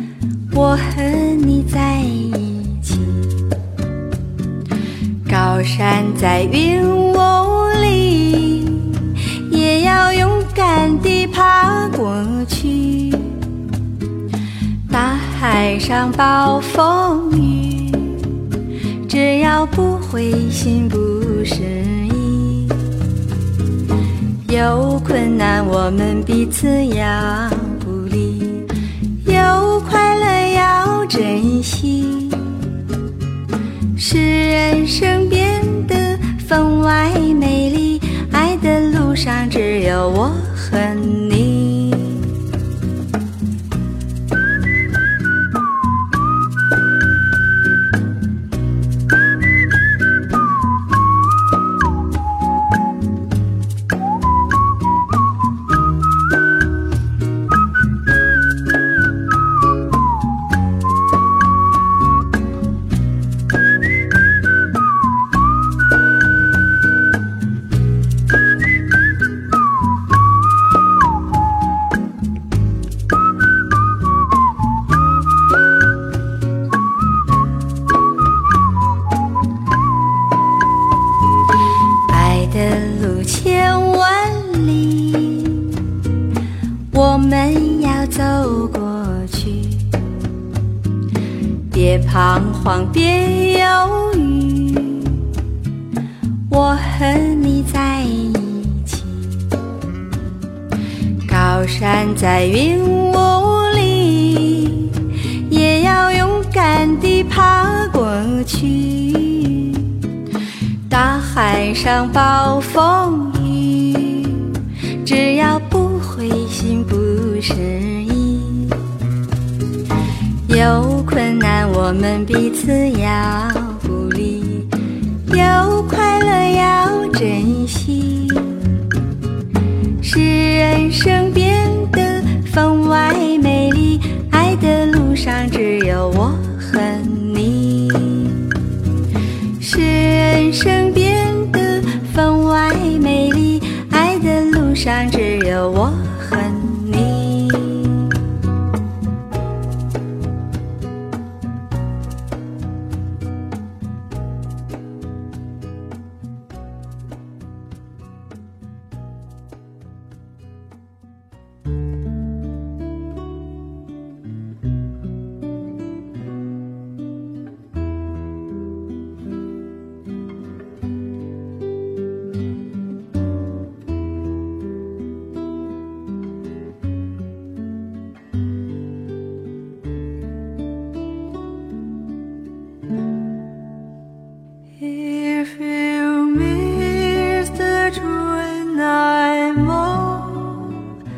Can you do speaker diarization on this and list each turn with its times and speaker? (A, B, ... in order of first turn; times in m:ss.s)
0:00.5-0:03.5 A
0:05.3-0:13.5 A
0:14.9-0:18.4 A
0:19.0-0:22.9 A
0:24.4-0:28.7 A
0:29.2-0:32.7 A
0:34.0-0:42.3 A
1:22.1-1:25.8 A
1:26.9-1:29.9 A
1:31.7-1:35.3 A
1:36.5-1:39.5 A
1:41.2-1:50.0 A
1:50.9-1:58.8 A
2:00.4-2:04.7 A
2:05.3-2:08.8 A
2:10.0-2:18.5 A
2:19.6-2:28.2 A
3:04.8-3:10.9 A